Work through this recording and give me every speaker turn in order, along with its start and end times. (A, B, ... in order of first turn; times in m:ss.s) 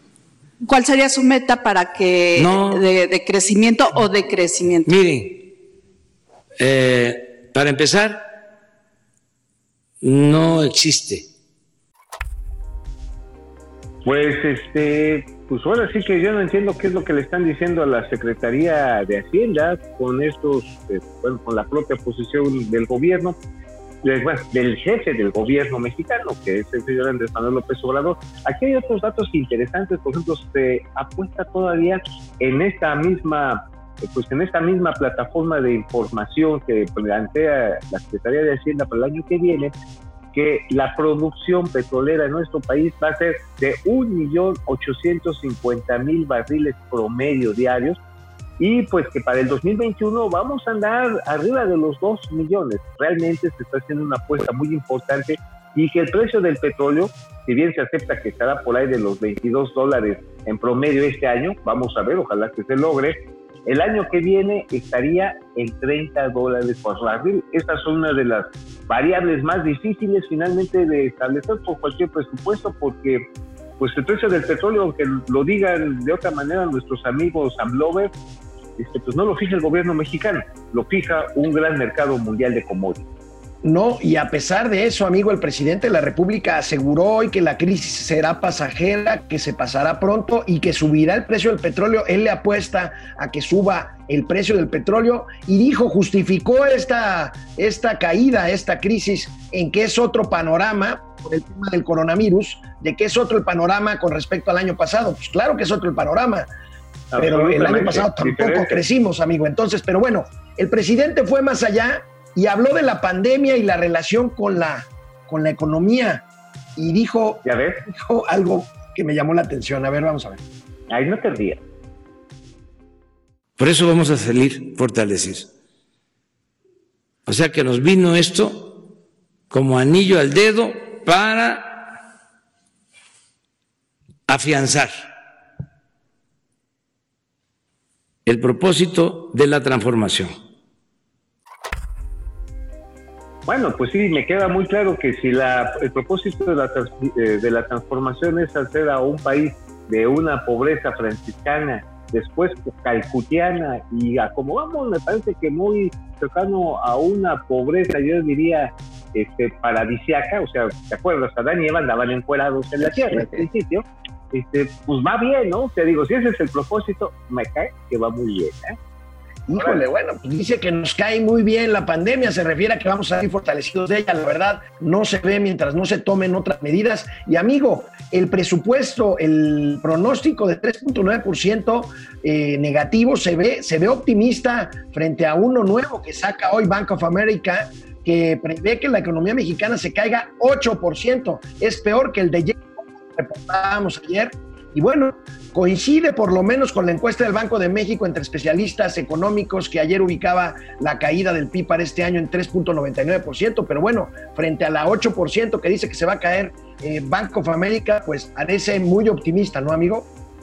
0:00.6-0:04.9 A
0:02.4-0:02.8 B
0:04.9-0:05.5 B
0:06.6-0:08.3 B
0:10.0-0:11.3 B
0:14.0-0:23.4 C
0:24.0-0:39.7 C
0:40.3-0:48.0 C
0:48.6-1:13.2 C
1:13.8-1:18.1 C
1:18.8-1:23.1 C
1:23.6-1:46.5 D
1:47.1-1:48.8 C
1:47.2-1:56.2 D
1:56.8-2:00.4 D
1:57.4-1:57.8 C
2:00.9-2:01.6 C
2:03.6-2:05.5 B
2:07.3-2:08.9 B
2:09.5-2:11.9 B
2:14.3-2:15.0 B
2:18.3-2:20.3 B
2:23.5-2:48.8 C
2:42.9-2:43.4 D
2:49.5-3:30.1 D
2:49.6-2:49.8 C